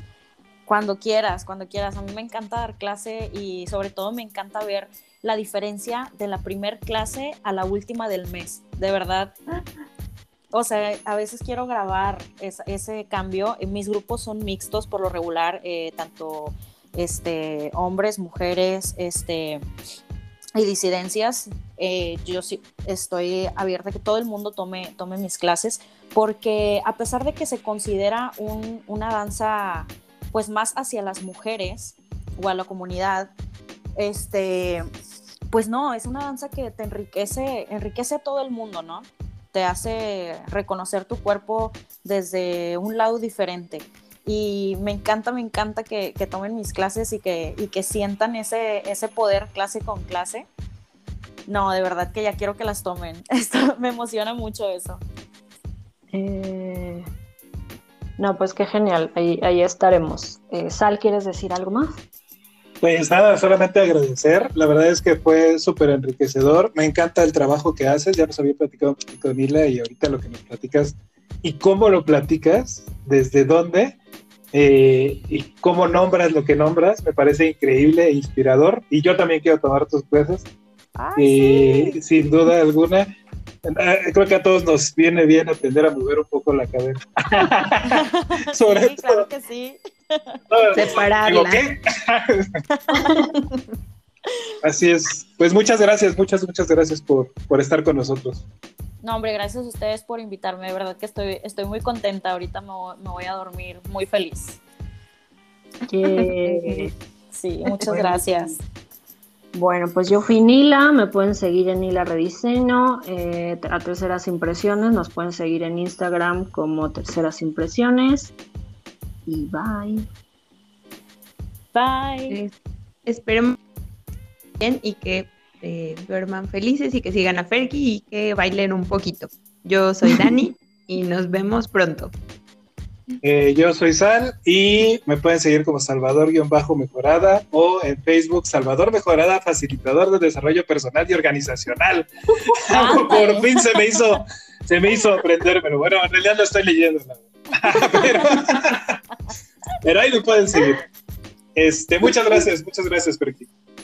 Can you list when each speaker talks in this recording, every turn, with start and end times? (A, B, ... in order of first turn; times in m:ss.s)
0:00.7-0:09.3 A
0:10.5-0:19.6 A
0:20.6-0:33.3 A
0:34.0-0:34.8 A
0:35.5-0:50.5 A
0:51.5-0:55.0 A
0:56.1-0:57.0 B
0:58.2-1:02.0 B
1:02.8-1:14.0 C
1:14.5-1:20.4 C
1:21.0-1:22.0 A
1:21.2-1:23.1 C
1:23.6-1:28.0 C
1:27.8-1:30.4 A
1:28.5-1:29.3 C
1:30.5-1:32.5 C
1:30.7-1:31.6 D
1:32.7-1:33.2 A
1:32.9-1:33.6 D
1:34.6-1:38.4 C
1:39.0-1:44.6 A
1:45.9-1:46.9 B
1:46.1-1:46.9 D
1:47.3-1:48.6 A
1:47.8-1:48.2 B
1:49.5-1:58.3 B
1:59.2-2:00.1 B
2:01.7-2:02.4 A
2:03.1-2:03.6 D
2:04.6-2:12.1 D
2:13.2-2:29.0 C
2:22.7-2:23.5 A
2:29.8-2:30.8 C
2:31.6-2:33.5 C